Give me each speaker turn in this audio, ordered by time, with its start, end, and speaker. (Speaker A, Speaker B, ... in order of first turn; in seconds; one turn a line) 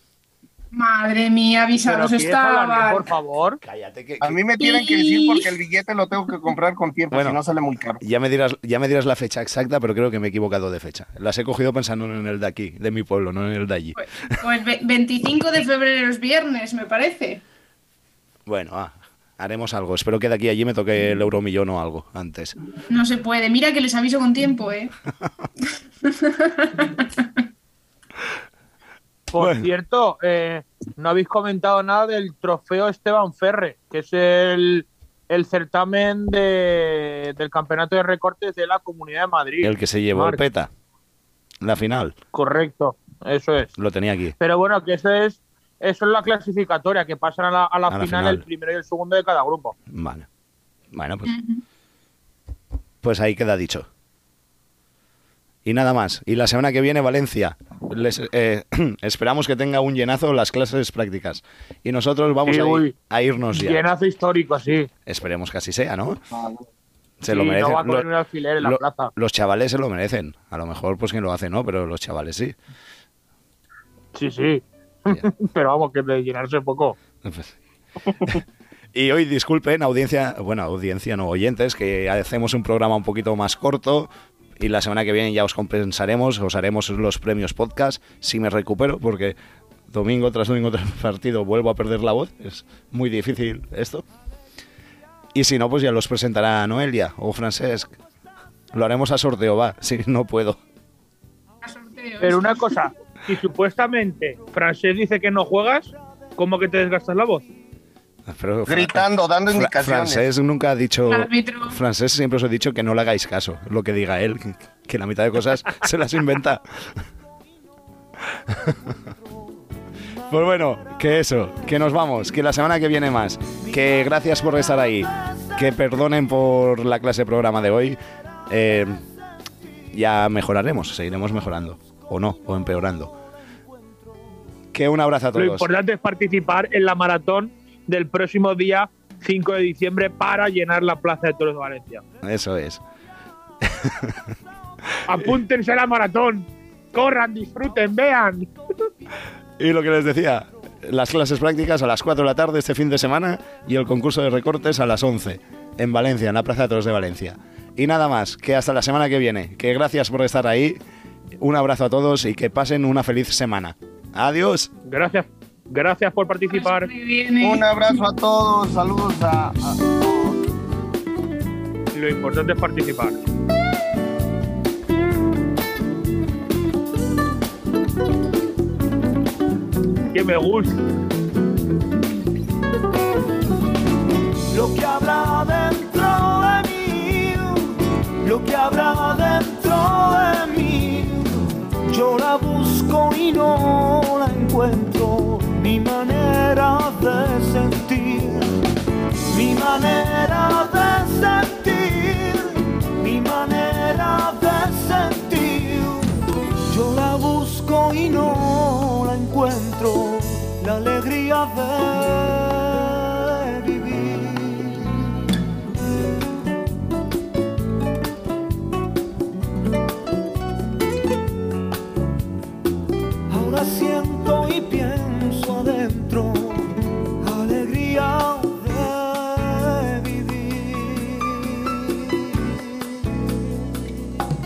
Speaker A: 0.7-3.1
Speaker B: 1.8-3.6
Speaker C: 3.6-4.4
Speaker D: 4.2-8.0
Speaker A: 4.6-5.5
Speaker C: 7.1-7.4
Speaker C: 8.0-14.0
Speaker A: 13.9-17.4
Speaker C: 18.5-22.6
Speaker A: 22.9-24.9
Speaker A: 26.0-27.3
Speaker B: 29.3-40.4
Speaker C: 29.4-29.7
Speaker C: 39.6-40.7
Speaker C: 41.6-42.1
Speaker B: 42.3-43.7
Speaker C: 43.8-44.4
Speaker B: 44.4-49.7
Speaker C: 47.9-48.4
Speaker C: 49.9-50.3
Speaker C: 50.9-51.3
Speaker A: 51.2-51.6
Speaker C: 53.0-53.9
Speaker C: 55.6-63.8
Speaker B: 62.5-62.9
Speaker B: 63.5-64.9
Speaker C: 65.0-66.2
Speaker D: 66.3-66.6
Speaker C: 67.2-68.1
Speaker B: 67.3-69.1
Speaker C: 68.6-72.5
Speaker B: 74.1-77.0
Speaker C: 77.2-77.6
Speaker C: 78.9-89.3
Speaker C: 89.9-94.0
Speaker C: 95.3-97.9
Speaker C: 98.7-100.6
Speaker A: 101.6-102.7
Speaker B: 102.2-107.5
Speaker C: 108.2-116.6
Speaker D: 108.7-110.2
Speaker A: 111.1-111.8
Speaker C: 118.5-118.9
Speaker C: 120.3-129.0
Speaker C: 129.9-133.2
Speaker C: 134.7-135.7
Speaker B: 135.3-142.0
Speaker C: 142.2-142.8
Speaker C: 143.6-144.2
Speaker B: 145.1-148.5
Speaker C: 149.6-160.8
Speaker C: 161.4-164.7
Speaker B: 164.8-166.9
Speaker A: 166.5-167.8
Speaker D: 167.4-170.4
Speaker B: 171.9-173.2
Speaker B: 180.1-180.8
Speaker E: 184.5-198.6
Speaker E: 199.3-214.9
Speaker E: 223.3-231.7